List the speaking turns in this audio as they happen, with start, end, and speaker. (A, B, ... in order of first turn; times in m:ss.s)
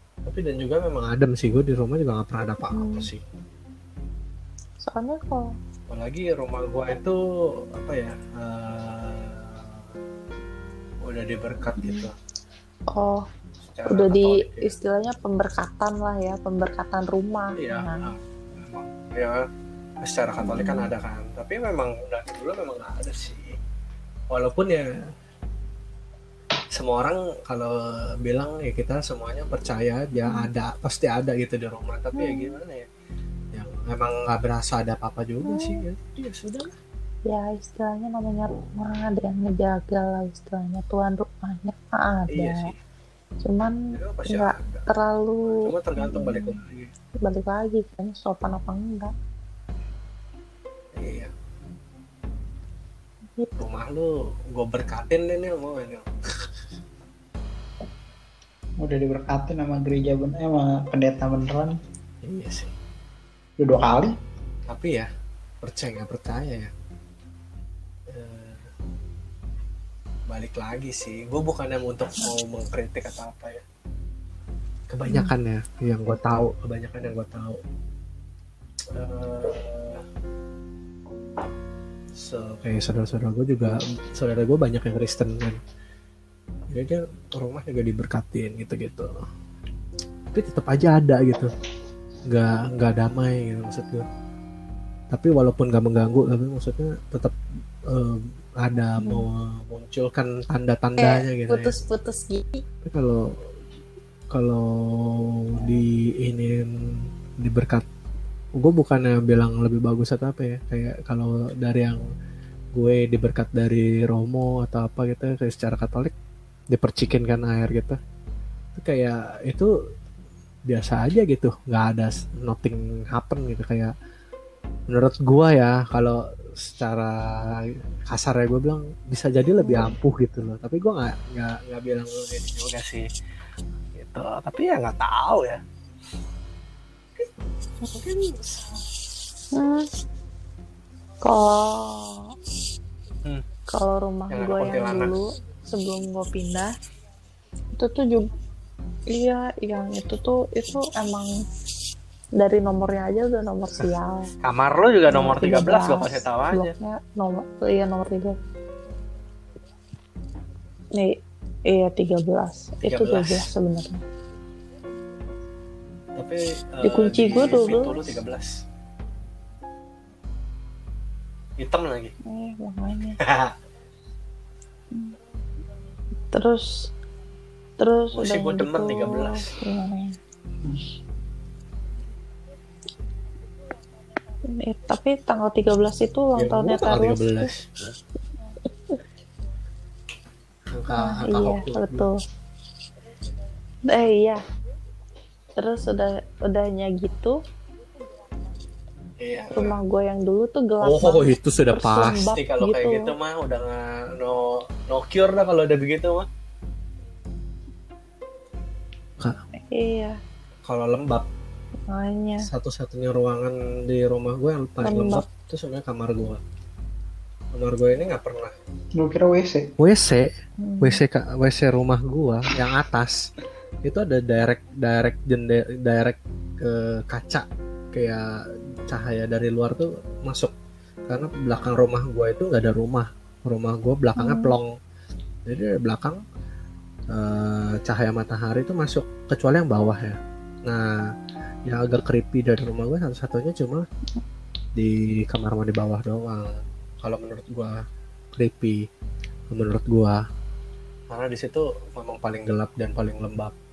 0:00.2-0:03.2 A
0:02.7-0:03.1 B
0:04.8-0:05.5 B
0:05.9-0:09.9 A
0:11.0-0:12.1 A
0:11.8-0:12.1 B
0:12.9-0:13.2 B
0:13.6-0:14.7 A
0:13.9-0:18.1 B
0:17.6-0:19.4 A
0:20.0-0:23.6 A
0:20.4-0:20.9 B
0:24.3-0:24.8 A
0:26.7-0:32.8 A
0:30.2-0:30.5 B
0:32.1-0:32.6 B
0:33.5-0:36.7 A
0:35.4-0:35.8 B
0:37.3-0:42.7 B
0:42.3-0:42.8 A
0:43.4-0:46.6 B
0:43.9-0:44.9 A
0:45.4-0:46.9 A
0:47.2-0:49.1 B
0:50.9-0:51.3 A
0:53.4-0:53.6 B
0:53.6-0:56.5 A
0:58.8-1:01.8 C
1:02.2-1:02.7 A
1:03.6-1:04.1 C
1:04.7-1:05.1 A
1:05.6-1:06.7 A
1:08.1-1:08.7 A
1:10.3-1:13.6 A
1:14.9-1:17.6 A
1:15.0-1:15.3 B
1:18.9-1:20.0 A
1:22.1-1:25.6 A
1:26.7-1:29.1 A
1:30.3-1:31.5 A
1:32.3-1:34.0 A
1:35.1-1:37.3 A
1:37.9-1:41.8 A
1:39.0-1:39.2 B
1:41.0-1:42.6 B
1:42.8-1:43.3 A
1:44.3-1:47.8 A
1:45.6-1:45.8 B
1:48.6-1:52.0 A
1:52.7-1:56.1 A
1:56.7-1:58.0 A
1:58.8-1:59.7 A
2:00.7-2:03.9 A
2:04.9-2:13.0 A
2:09.5-2:09.9 B
2:13.9-2:15.6 A
2:17.9-2:18.6 A
2:19.5-2:19.9 B
2:21.2-2:22.3 B
2:23.7-2:26.8 B
2:24.3-2:25.1 A
2:27.8-2:28.3 B
2:29.1-2:31.3 B
2:32.4-2:34.3 B
2:34.4-2:36.7 A
2:35.1-2:38.4 B
2:41.0-2:44.0 B
2:42.8-2:43.5 A
2:46.2-2:48.6 A
2:46.8-2:48.0 B
2:51.6-2:52.1 A
2:52.2-2:53.2 B
2:53.2-2:53.5 A
2:56.3-2:56.9 B
2:57.8-3:00.1 B
2:58.1-2:59.5 A
3:04.5-3:07.5 B
3:06.3-3:07.7 A
3:10.7-3:12.1 A
3:10.9-3:12.2 B
3:13.9-3:14.4 B
3:15.6-3:17.4 B
3:19.2-3:19.8 A
3:19.5-3:23.1 B
3:20.8-3:26.3 A
3:29.7-3:30.2 B
3:30.6-3:31.2 A
3:31.9-3:32.5 B
3:32.4-3:36.4 A
3:34.8-3:35.2 B
3:37.5-3:38.5 A
3:39.0-3:39.7 C
3:39.8-3:43.3 A
3:40.6-3:41.0 B
3:43.8-3:50.5 A
3:51.1-3:54.7 A
3:54.2-3:54.5 B
3:55.4-3:56.2 A
3:57.1-4:00.9 A
4:01.6-4:03.8 A
4:04.8-4:07.8 A
4:08.3-4:08.8 A
4:09.5-4:10.2 A
4:11.1-4:13.5 A